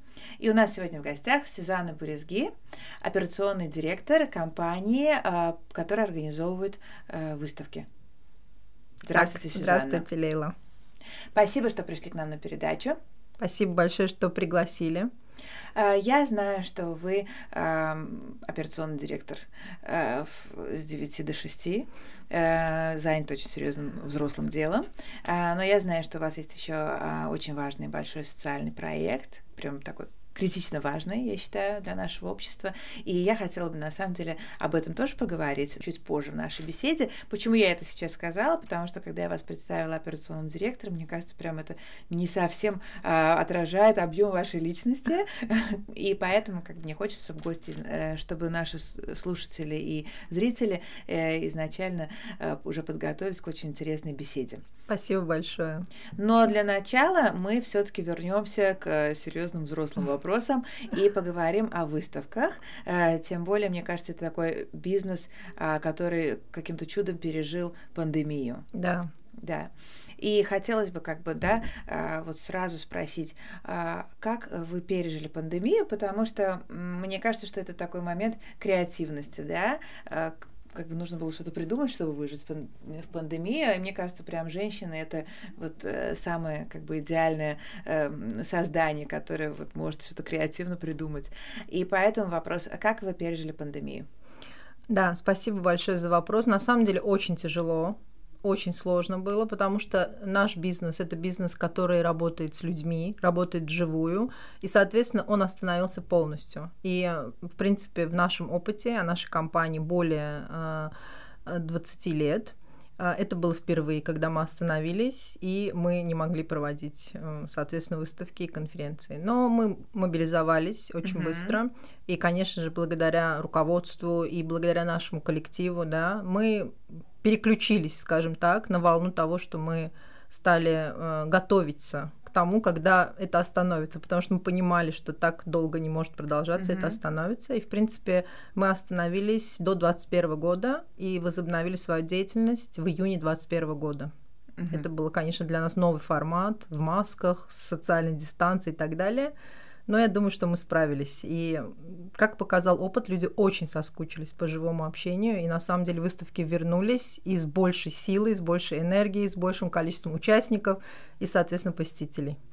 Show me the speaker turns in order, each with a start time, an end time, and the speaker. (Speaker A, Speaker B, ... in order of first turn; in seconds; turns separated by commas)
Speaker A: 0.4-2.5, Speaker A: 3.0-7.9, Speaker A: 9.1-10.1, Speaker B: 9.1-10.6, Speaker A: 11.3-13.0, Speaker B: 13.4-15.1, Speaker A: 15.8-54.6, Speaker B: 54.9-55.9, Speaker A: 56.2-68.7, Speaker B: 68.7-69.1, Speaker A: 69.4-94.1, Speaker B: 94.9-110.9, Speaker B: 111.5-144.1, Speaker A: 121.0-121.6, Speaker A: 136.6-137.0, Speaker A: 144.6-144.8, Speaker B: 144.7-149.3, Speaker B: 149.9-162.4